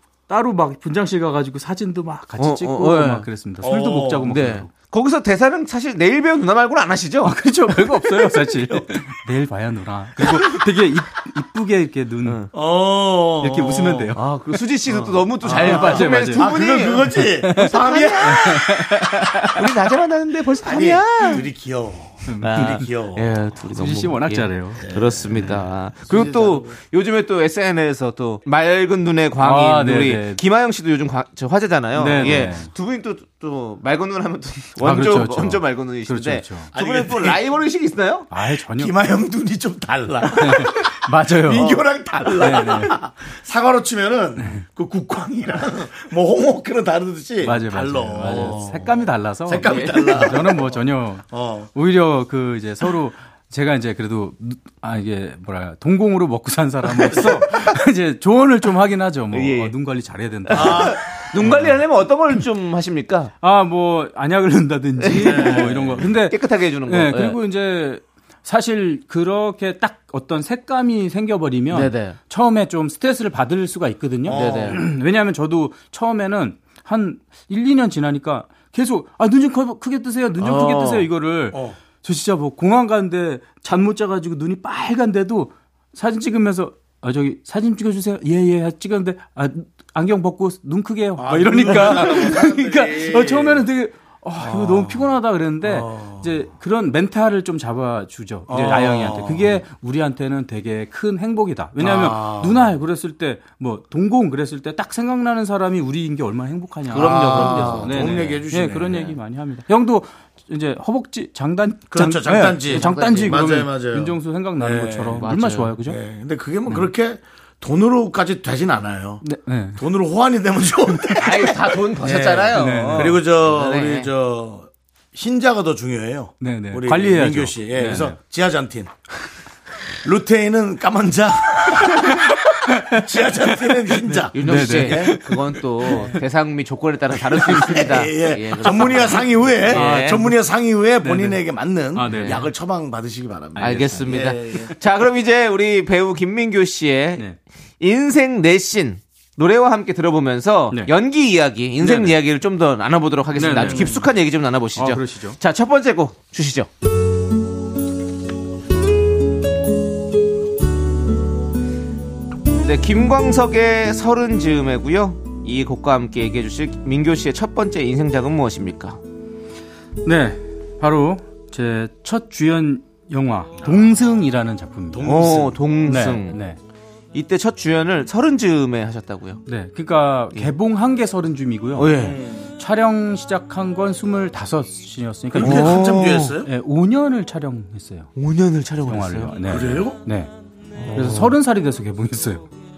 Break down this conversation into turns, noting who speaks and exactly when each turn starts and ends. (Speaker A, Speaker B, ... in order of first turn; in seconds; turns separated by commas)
Speaker A: 0.3-4.7, Speaker B: 2.4-3.3, Speaker C: 3.6-4.4, Speaker B: 4.3-7.4, Speaker A: 7.2-12.5, Speaker C: 8.4-8.9, Speaker B: 12.2-12.5, Speaker C: 12.5-14.2, Speaker A: 13.4-14.2, Speaker B: 14.2-18.7, Speaker C: 14.9-18.9, Speaker A: 15.4-16.6, Speaker A: 17.1-19.7, Speaker B: 19.6-21.4, Speaker C: 20.6-23.3, Speaker A: 22.3-22.9, Speaker B: 22.4-38.3, Speaker A: 23.7-25.6, Speaker C: 24.8-26.8, Speaker A: 29.4-30.4, Speaker A: 31.9-32.7, Speaker A: 34.8-36.7, Speaker C: 36.7-37.4, Speaker A: 38.3-39.0, Speaker C: 38.4-51.7, Speaker A: 40.4-41.9, Speaker B: 41.5-43.0, Speaker A: 42.4-43.0, Speaker A: 47.4-61.7, Speaker B: 49.6-50.4, Speaker B: 59.3-59.7, Speaker B: 60.5-63.3, Speaker C: 60.5-61.0, Speaker A: 63.4-116.0, Speaker B: 65.0-67.4, Speaker C: 65.2-66.0, Speaker B: 71.7-72.2, Speaker C: 74.2-74.8, Speaker B: 74.3-74.8, Speaker B: 80.4-81.1, Speaker C: 81.5-81.8, Speaker C: 91.2-93.7, Speaker C: 94.4-96.4, Speaker C: 98.5-99.6, Speaker C: 101.8-102.7, Speaker B: 106.9-108.4, Speaker C: 106.9-109.2, Speaker C: 111.9-115.3, Speaker B: 112.7-113.5, Speaker B: 115.2-115.7, Speaker C: 115.8-119.2, Speaker A: 119.2-119.8, Speaker C: 119.8-128.9, Speaker B: 121.2-124.1, Speaker A: 122.5-123.2, Speaker A: 126.4-128.2, Speaker C: 130.0-135.2, Speaker A: 132.7-136.2, Speaker B: 134.3-140.3, Speaker C: 135.9-136.1, Speaker C: 137.4-144.8, Speaker A: 137.5-137.8, Speaker A: 138.7-140.4, Speaker A: 141.0-142.5, Speaker B: 142.0-142.5, Speaker A: 143.6-144.2, Speaker B: 143.6-147.2, Speaker B: 147.8-156.7, Speaker A: 151.8-152.2, Speaker A: 153.3-154.1, Speaker C: 153.6-154.0, Speaker A: 154.8-155.4, Speaker B: 162.6-169.0, Speaker A: 170.0-175.2, Speaker C: 173.6-174.0, Speaker C: 174.9-175.6, Speaker B: 175.0-176.4, Speaker A: 175.8-176.6, Speaker B: 177.1-179.4, Speaker A: 179.5-188.1, Speaker B: 181.8-182.2, Speaker C: 181.9-182.5, Speaker C: 185.3-186.5, Speaker B: 185.4-186.4, Speaker B: 188.2-189.7, Speaker A: 188.9-190.3, Speaker C: 189.4-190.0, Speaker C: 190.8-191.3, Speaker B: 190.9-191.3, Speaker A: 190.9-192.5